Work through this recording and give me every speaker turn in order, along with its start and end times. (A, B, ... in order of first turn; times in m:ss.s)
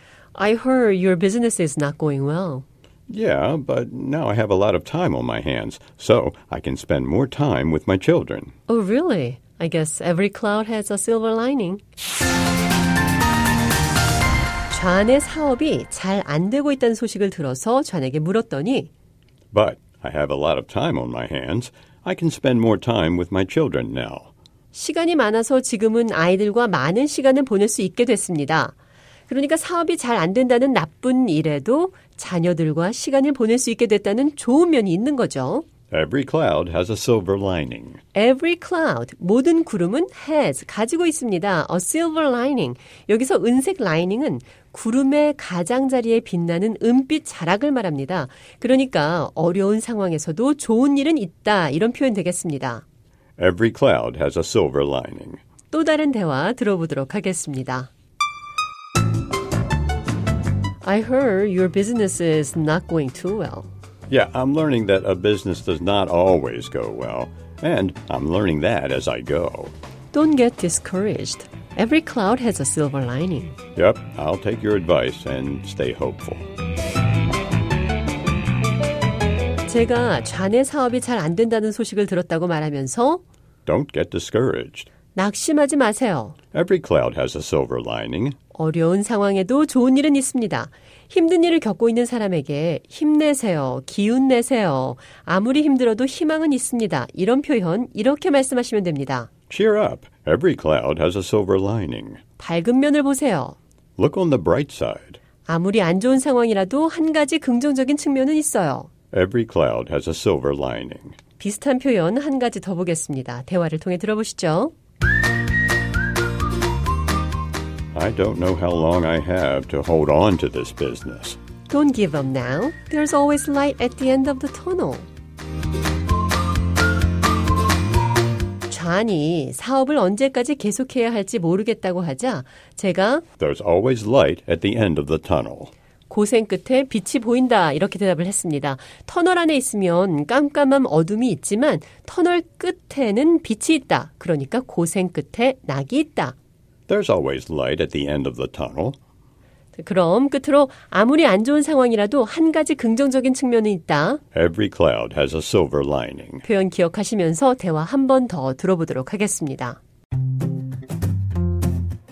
0:00.3-0:02.6 A
0:03.1-0:08.5 B
0:08.7-0:11.8 A
0:14.7-0:18.9 A
0:19.5-0:24.3 B
0:24.7-0:28.7 A
0:29.3-0:35.6 A
0:35.9-0:38.0 B
0:38.1-0:52.8 A
0:53.4-0:55.4 B
0:55.7-0:57.9 A
1:00.8-1:03.7 A
1:04.1-1:09.7 B
1:10.1-1:13.6 A
1:13.8-1:16.5 B
1:19.6-1:23.2 A
1:23.6-1:24.9 B
1:25.1-1:26.4 A
1:26.5-1:28.4 B
1:28.5-1:39.3 A
1:39.5-1:42.2 B
1:42.4-1:43.6 A
1:44.0-1:45.2 B
1:45.4-1:48.9 A
1:49.1-1:51.2 B
1:51.4-1:54.7 A
1:57.9-2:01.4 B
2:01.7-2:05.1 A
2:08.7-2:13.2 A
2:13.4-2:15.7 B
2:16.1-2:26.4 A
2:26.9-2:29.0 B
2:29.8-2:34.2 A
2:34.3-2:36.4 B
2:36.4-2:39.8 A